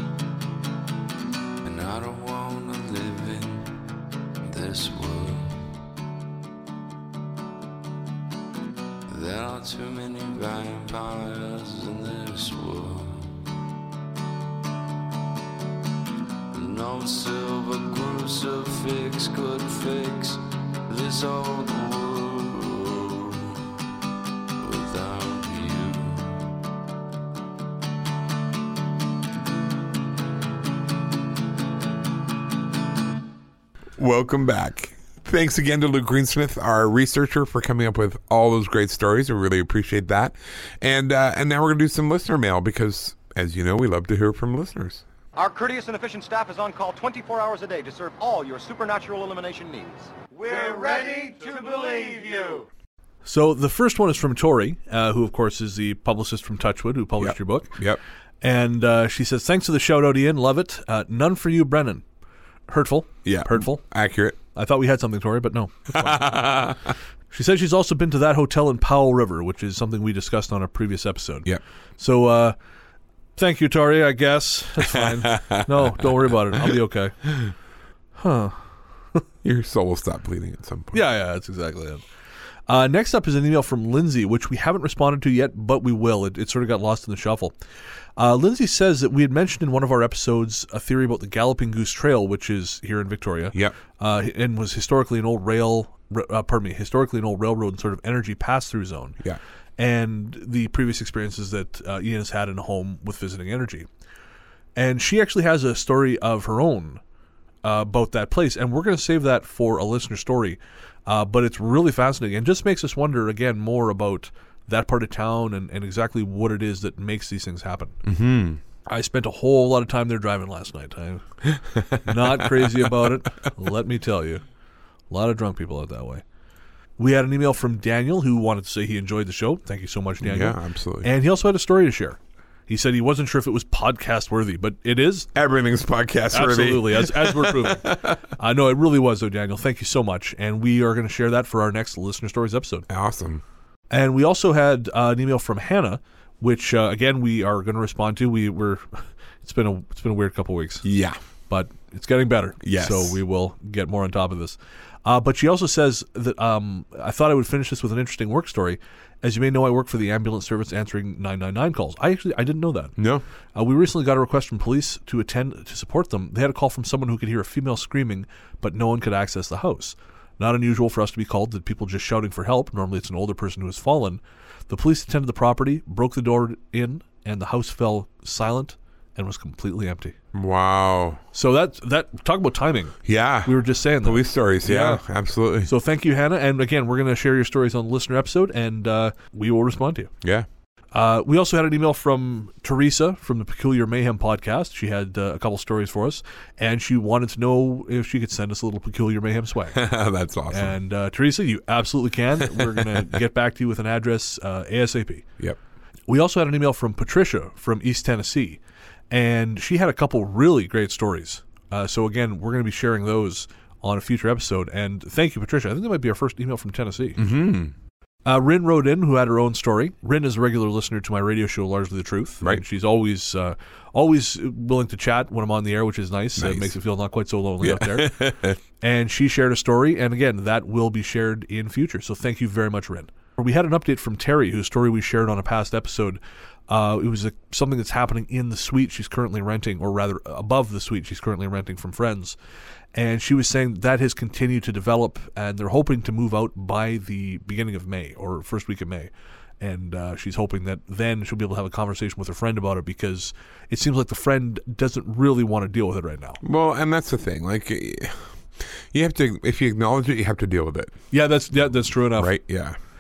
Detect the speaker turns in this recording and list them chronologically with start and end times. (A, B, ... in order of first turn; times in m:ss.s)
0:01.6-0:03.7 A
0:04.4-0:05.7 A
0:09.1-0:13.4 A
0:16.5-0:23.6 A
0:24.6-0:26.3 A
0:34.0-0:45.0 B
0:45.4-0:52.7 C
0:53.2-0:57.8 D
0:57.2-0:58.0 B
0:58.4-1:02.0 D
1:02.7-1:03.8 D
1:03.2-1:04.4 B
1:04.6-1:06.4 D
1:05.9-1:06.9 B
1:07.3-1:12.6 D
1:13.4-1:17.4 D
1:14.8-1:16.1 B
1:18.2-1:18.6 D
1:19.4-1:21.0 B
1:20.9-1:22.0 D
1:22.7-1:27.5 D
1:28.2-1:39.2 D
1:39.8-1:43.9 D
1:44.8-1:47.0 D
1:47.6-1:58.0 D
1:58.0-1:58.6 B
1:58.9-2:01.2 D
2:01.5-2:03.1 B
2:01.9-2:04.4 D
2:05.1-2:06.2 D
2:07.0-2:15.3 D
2:10.2-2:11.1 B
2:15.3-2:18.1 B
2:16.3-2:22.9 D
2:22.9-2:23.4 B
2:23.9-2:30.9 D
2:30.8-2:31.2 B
2:31.5-2:43.0 D
2:32.6-2:33.2 B
2:43.0-2:43.2 B
2:43.6-3:00.2 D
3:00.3-3:01.2 B
3:01.3-3:05.0 D
3:03.1-3:05.7 B
3:05.7-3:10.1 D
3:10.2-3:10.5 B
3:10.9-3:19.8 D
3:19.7-3:20.8 B
3:20.5-3:25.3 D
3:22.5-3:23.0 B
3:26.1-3:28.6 D
3:29.1-3:37.2 D
3:37.2-3:37.7 B
3:38.2-4:02.4 D
3:46.4-3:46.8 B
3:47.6-3:48.6 B
4:03.0-4:16.4 D
4:16.4-4:21.0 B
4:21.1-4:22.4 D
4:22.2-4:22.8 B